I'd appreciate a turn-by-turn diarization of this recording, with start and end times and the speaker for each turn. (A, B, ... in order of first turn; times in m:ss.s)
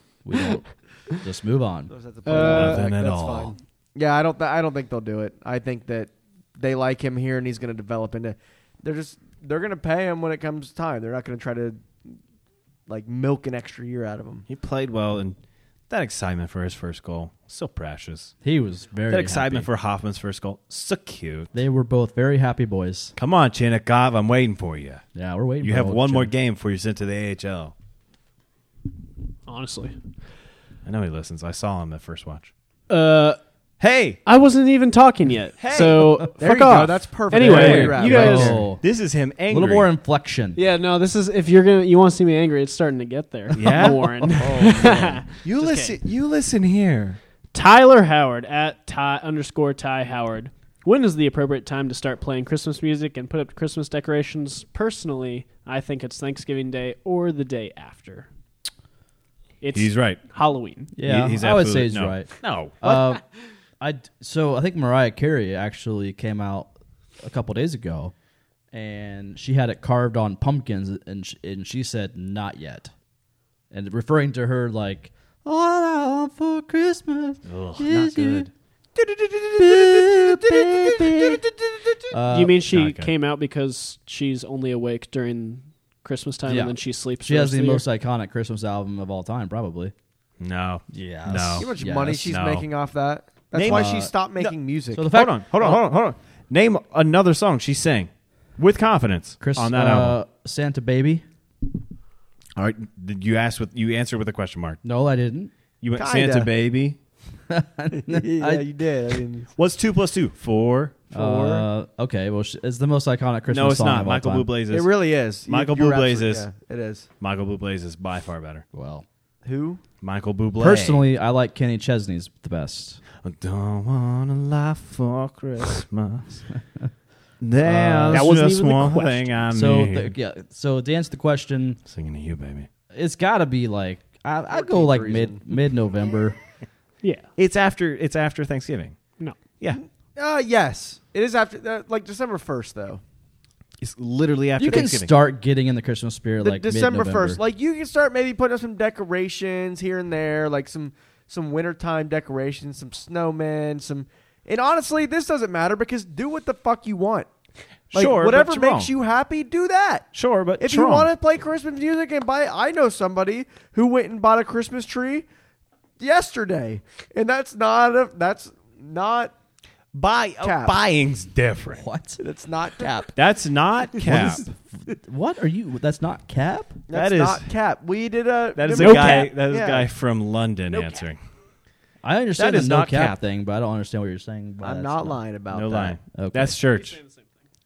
0:00.2-0:01.9 A
0:01.9-0:12.0 B
0:02.2-0:02.8 C
0:02.3-0:03.5 D
0:12.9-0:14.5 B
0:14.5-0:15.4 D
0:15.9-0:18.3 D
0:18.4-0:19.7 A
0:19.1-0:21.5 D
0:21.5-0:23.1 A
0:23.2-0:25.0 D
0:25.1-0:26.3 A
0:25.6-0:27.7 D
0:29.5-0:30.0 C
0:30.8-0:32.5 D
0:32.9-0:33.4 C
0:33.8-0:34.2 D
0:34.2-0:38.7 C
0:35.6-0:36.2 D
0:35.7-0:38.6 B
0:37.4-0:38.8 A
0:37.4-0:37.9 D
0:38.8-0:39.9 D
0:39.5-0:40.6 A
0:40.6-0:46.0 C
0:43.5-0:44.4 D
0:43.7-0:45.2 A
0:45.4-0:47.2 D
0:47.5-0:58.3 C
0:59.6-1:00.9 C
0:59.7-1:00.2 D
1:01.0-1:03.2 A
1:01.0-1:03.1 D
1:03.8-1:08.1 A
1:08.7-1:12.9 A
1:13.7-1:18.5 A
1:17.4-1:18.5 D
1:19.5-1:21.4 A
1:22.1-1:22.6 A
1:22.2-1:27.8 C
1:22.6-1:23.1 D
1:26.4-1:29.9 A
1:30.4-1:32.7 D
1:30.9-1:32.3 A
1:31.6-1:35.1 B
1:33.5-1:34.5 D
1:33.6-1:34.1 A
1:34.9-1:35.8 A
1:35.1-1:40.2 D
1:39.4-1:41.2 A
1:42.6-1:44.8 D
1:44.8-1:45.5 A
1:45.8-1:47.0 D
1:46.0-1:46.5 B
1:47.5-1:48.6 A
1:47.9-1:49.5 B
1:49.6-1:51.6 D
1:51.1-1:54.5 A
1:53.5-1:54.9 D
1:54.7-1:57.1 B
1:55.5-1:56.5 D
1:57.2-1:58.6 D
1:58.7-1:59.0 A
1:59.4-1:59.8 B
2:00.0-2:01.0 D
2:00.6-2:03.0 A
2:03.2-2:06.4 D
2:07.4-2:10.1 D
2:07.6-2:08.4 A
2:08.1-2:09.3 C
2:09.5-2:11.8 A
2:11.8-2:12.7 D
2:12.9-2:16.4 A
2:14.5-2:15.4 B
2:17.0-2:17.3 C
2:17.4-2:19.0 D
2:19.8-2:23.0 B
2:23.8-2:25.1 D
2:24.6-2:27.4 A
2:26.4-2:37.3 B
2:37.9-2:38.9 D
2:37.9-2:45.2 B
2:40.1-2:41.1 D
2:46.0-2:49.3 B
2:49.9-2:51.8 D
2:50.4-2:50.8 B
2:51.8-2:52.2 A
2:52.2-2:53.1 B
2:53.1-2:54.4 D
2:54.0-2:56.8 A
2:56.9-2:59.9 B
2:56.9-2:57.5 D
2:58.5-3:01.2 D
2:58.8-2:59.3 C
3:00.7-3:01.0 C
3:02.0-3:05.2 A
3:02.4-3:03.2 D
3:04.6-3:06.0 B
3:05.5-3:07.0 D
3:06.1-3:06.6 A
3:06.8-3:07.2 C